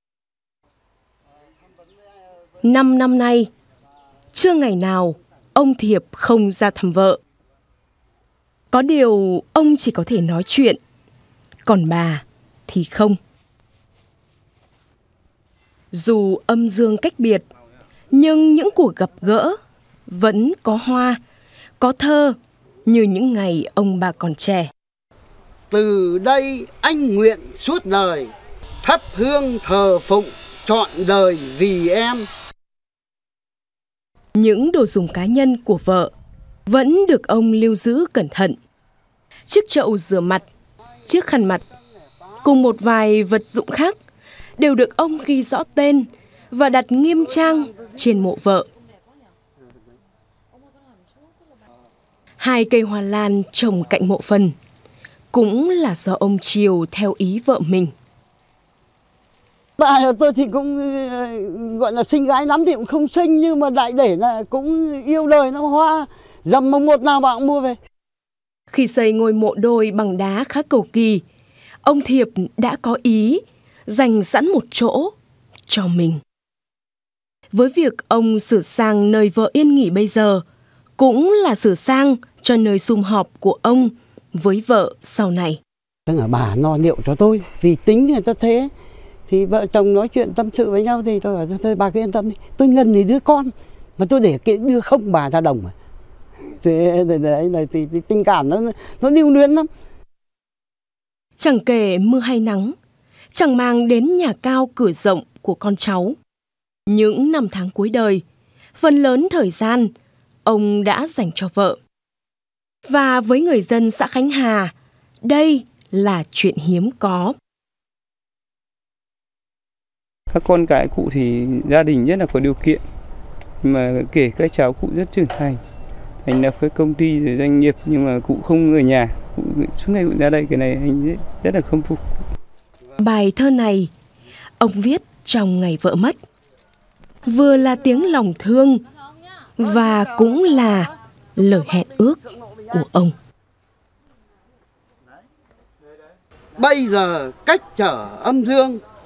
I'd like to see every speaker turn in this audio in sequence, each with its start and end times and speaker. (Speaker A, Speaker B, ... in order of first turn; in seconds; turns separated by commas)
Speaker A: 2.6-3.5, Speaker A: 4.3-7.2, Speaker A: 8.7-10.8, Speaker A: 11.7-13.2, Speaker A: 15.9-17.4, Speaker A: 18.1-19.6, Speaker A: 20.1-21.2, Speaker A: 21.8-24.7, Speaker B: 25.7-28.3, Speaker B: 28.8-32.3, Speaker A: 34.4-36.1, Speaker A: 36.7-38.6, Speaker A: 39.5-40.5, Speaker A: 41.1-41.6, Speaker A: 42.4-44.0, Speaker A: 44.6-48.7, Speaker A: 52.4-54.5, Speaker A: 55.3-57.9, Speaker B: 59.8-67.8, Speaker A: 68.7-71.2, Speaker A: 71.8-75.1, Speaker A: 75.7-76.2, Speaker A: 77.5-80.4, Speaker A: 81.0-85.6, Speaker B: 86.1-88.7, Speaker B: 89.3-95.7, Speaker B: 96.6-99.7, Speaker A: 101.4-102.8, Speaker A: 103.3-106.2, Speaker A: 106.9-108.2, Speaker A: 108.8-109.9, Speaker A: 110.5-111.8, Speaker A: 112.9-117.4, Speaker C: 120.3-122.8, Speaker C: 123.6-125.6, Speaker C: 126.2-132.0, Speaker A: 133.0-133.9, Speaker A: 134.6-136.2, Speaker A: 137.3-138.8, Speaker A: 139.6-143.2, Speaker B: 146.6-148.8